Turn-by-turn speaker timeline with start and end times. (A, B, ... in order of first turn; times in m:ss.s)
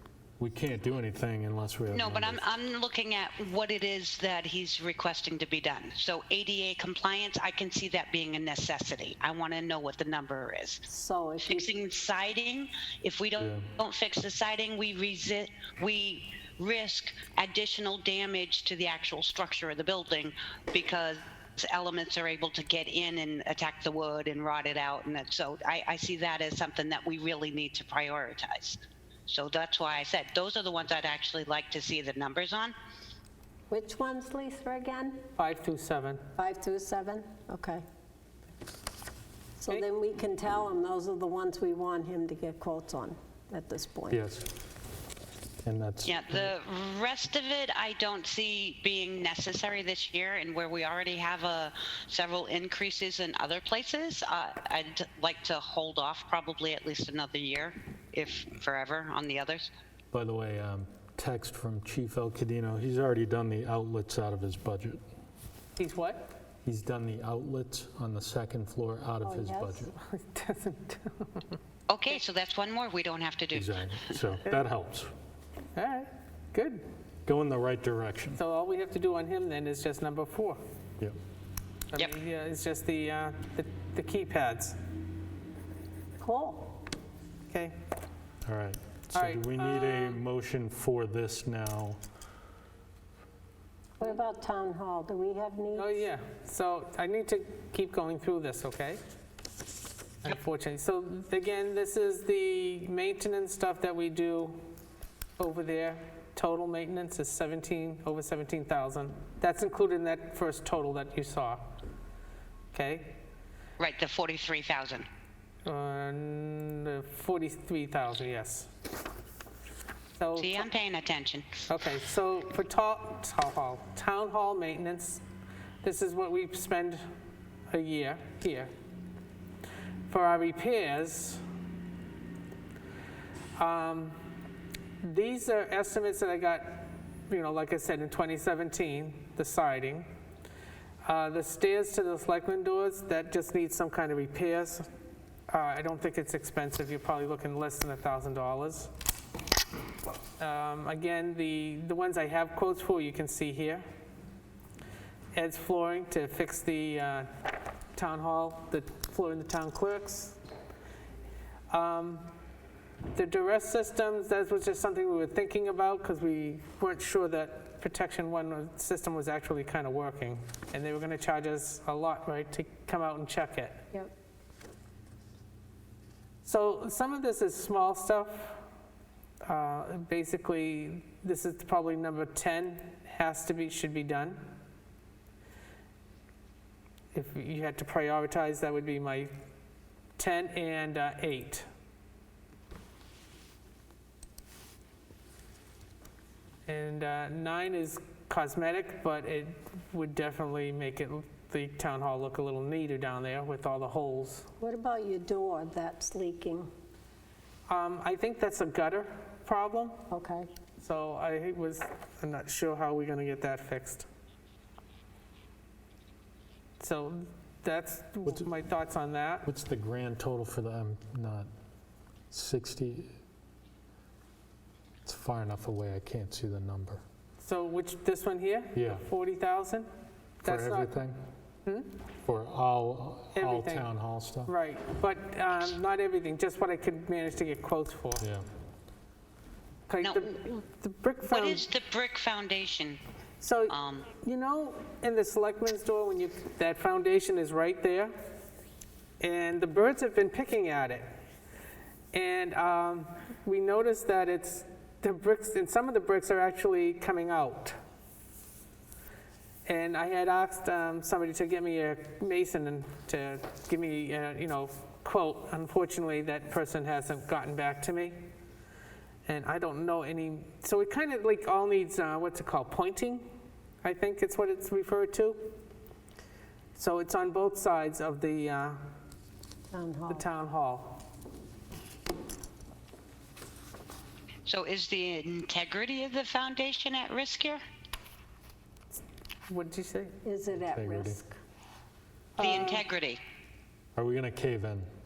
0:00.4-0:02.5 A
0:01.9-0:10.8 B
0:10.9-0:11.7 C
0:11.4-0:32.7 B
0:13.4-0:13.6 A
0:33.7-0:35.2 C
0:35.4-0:36.2 D
0:36.4-0:37.8 C
0:39.6-0:44.2 C
0:44.1-0:44.5 A
0:45.6-0:46.5 A
0:46.0-0:59.7 B
1:00.1-1:05.0 A
1:05.8-1:06.3 D
1:06.6-1:09.9 A
1:09.2-1:09.9 C
1:10.0-1:11.6 D
1:11.9-1:13.9 B
1:13.5-1:15.1 A
1:15.8-1:16.8 D
1:17.2-1:18.4 A
1:18.4-1:20.6 D
1:21.9-1:24.8 D
1:26.2-1:26.8 C
1:27.5-1:27.8 D
1:28.4-1:32.0 A
1:29.1-1:30.2 D
1:34.0-1:36.0 C
1:35.8-1:39.0 D
1:40.2-1:44.6 D
1:45.4-1:51.6 D
1:52.7-1:53.2 D
1:53.8-1:55.0 B
1:55.6-1:58.7 D
2:00.2-2:00.7 D
2:00.4-2:01.5 B
2:01.7-2:05.2 D
2:05.8-2:07.0 D
2:07.7-2:08.7 D
2:10.1-2:11.4 D
2:13.6-2:14.2 D
2:15.0-2:20.1 D
2:21.0-2:24.9 D
2:25.5-2:28.9 D
2:30.4-2:33.8 D
2:35.3-2:37.3 D
2:37.9-2:40.4 D
2:41.7-2:42.3 D
2:43.1-2:53.8 D
2:56.4-2:58.6 D
2:59.4-3:04.5 D
3:07.1-3:09.3 D
3:10.2-3:11.7 D
3:16.7-3:24.5 D
3:24.6-3:26.7 C
3:27.7-3:30.1 D
3:30.1-3:30.5 C
3:30.8-3:34.0 D
3:36.8-3:39.5 D
3:39.4-3:41.5 A
3:42.3-3:43.1 A
3:45.0-3:47.0 A
3:47.4-3:49.9 D
3:48.7-3:49.0 A
3:50.4-3:50.9 D
3:50.4-3:51.2 A
3:51.6-3:51.9 D
3:52.2-3:54.5 A
3:53.3-3:53.9 D
3:54.4-3:58.2 D
3:58.2-3:58.4 A
3:59.9-4:01.6 D
4:00.0-4:00.3 B
4:01.3-4:03.0 B
4:03.4-4:08.1 D
4:03.7-4:04.1 B
4:09.2-4:11.1 D
4:12.1-4:17.8 D
4:19.6-4:28.2 D
4:29.2-4:33.3 D
4:33.8-4:35.6 D
4:36.7-4:38.8 D
4:39.7-4:40.2 C
4:40.1-4:41.0 D
4:44.4-4:47.6 B
4:49.5-4:50.2 D
4:50.2-4:51.3 C
4:50.6-4:51.2 A
4:52.4-4:52.8 D
4:52.4-4:53.2 B
4:54.0-4:54.9 A